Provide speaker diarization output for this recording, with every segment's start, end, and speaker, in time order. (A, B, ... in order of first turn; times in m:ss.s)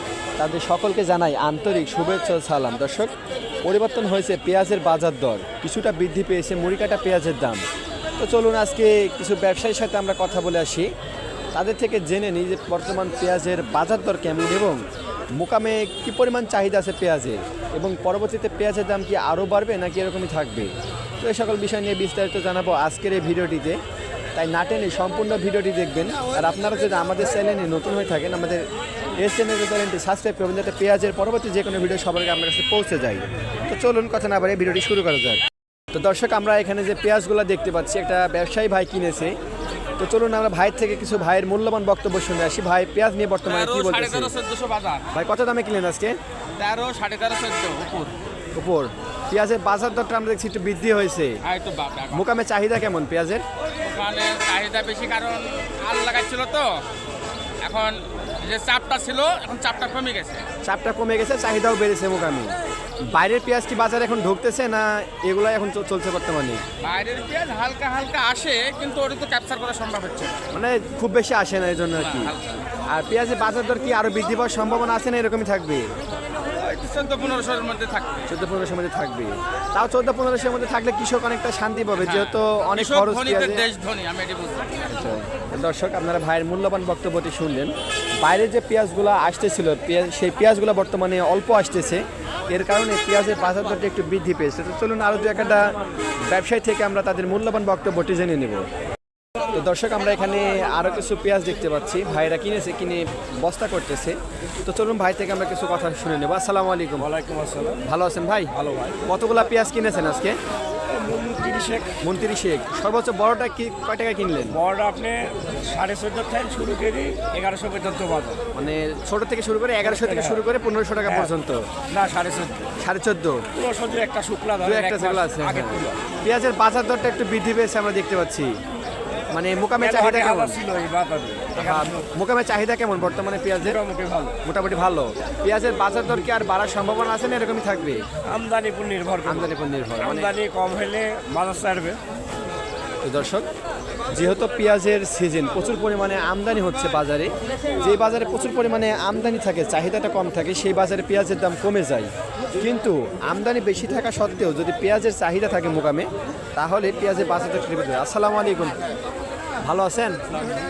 0:00.4-0:03.1 A
0:03.6-0:07.6 A
0:08.2-0:10.9 A
0:11.5-0:14.8 A
0:15.4-0:23.8 A
0:24.4-0:28.7 A
0:29.2-0:35.4 A
0:35.9-0:39.3 A
0:40.0-0:44.3 A
0:43.4-0:45.1 B
0:45.1-0:46.2 A
0:46.6-0:48.2 B
0:48.6-0:51.4 A
0:51.4-0:52.3 B
0:52.1-0:53.4 A
0:53.8-0:56.8 B
0:57.6-1:00.5 B
1:00.6-1:02.5 A
1:03.1-1:06.6 A
1:06.8-1:10.3 B
1:10.5-1:12.3 A
1:11.9-1:12.6 B
1:12.9-1:15.9 A
1:16.6-1:18.2 B
1:18.3-1:23.6 A
1:22.0-1:24.9 B
1:24.9-1:35.8 A
1:36.3-1:38.7 A
1:39.5-1:47.1 A
1:47.0-1:47.8 C
1:47.8-1:48.5 A
1:48.5-1:49.0 C
1:49.1-1:50.4 A
1:50.9-1:52.0 C
1:52.0-1:54.6 A
1:54.5-1:58.4 C
1:58.5-2:01.7 A
1:59.8-2:00.5 C
2:01.0-2:01.3 C
2:01.9-2:02.7 C
2:02.8-2:03.4 A
2:03.5-2:06.0 C
2:04.6-2:08.5 A
2:09.3-2:10.6 A
2:09.8-2:11.9 C
2:11.6-2:13.8 A
2:13.5-2:14.4 C
2:14.4-2:18.0 A
2:18.2-2:22.0 C
2:19.2-2:20.3 A
2:23.0-2:23.5 A
2:24.1-2:38.8 A
2:39.6-2:40.2 A